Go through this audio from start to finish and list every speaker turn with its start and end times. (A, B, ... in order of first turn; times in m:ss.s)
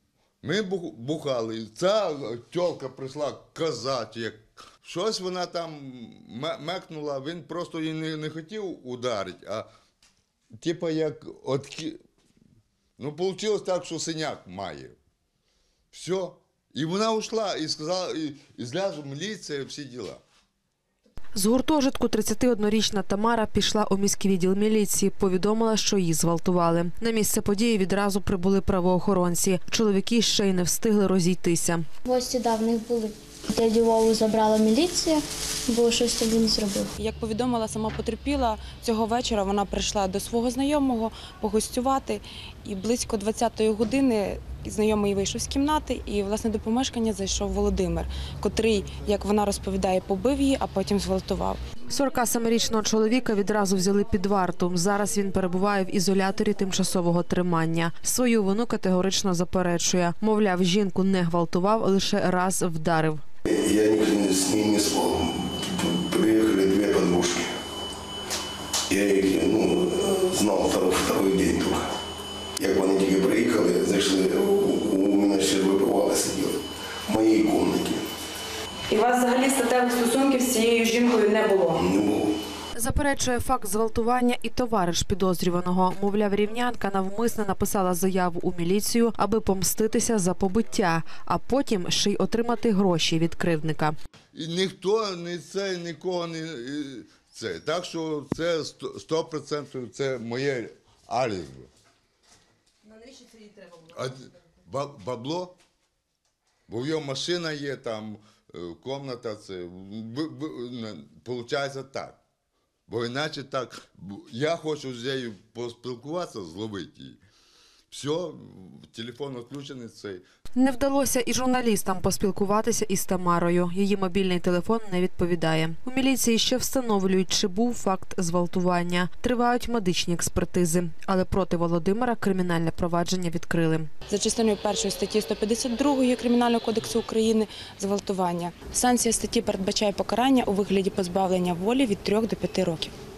0:00.4-0:09.7 A
0:10.6-0:12.0 A
0:13.0-0:15.0 A
0:15.9-0:20.2 A
0:21.4-0:31.9 B
0:32.0-0:36.9 C
0:37.0-0:51.6 D
0:51.9-1:03.2 B
1:03.5-1:07.5 E
1:08.9-1:11.9 E
1:12.6-1:18.0 E
1:18.9-1:21.8 D
1:21.8-1:22.3 E
1:22.8-1:34.0 B
1:34.3-1:41.7 A
1:43.4-1:45.6 A
1:46.7-1:52.2 A
1:52.9-1:57.2 A
1:57.9-2:00.2 A
2:00.6-2:13.9 B
2:14.1-2:22.9 D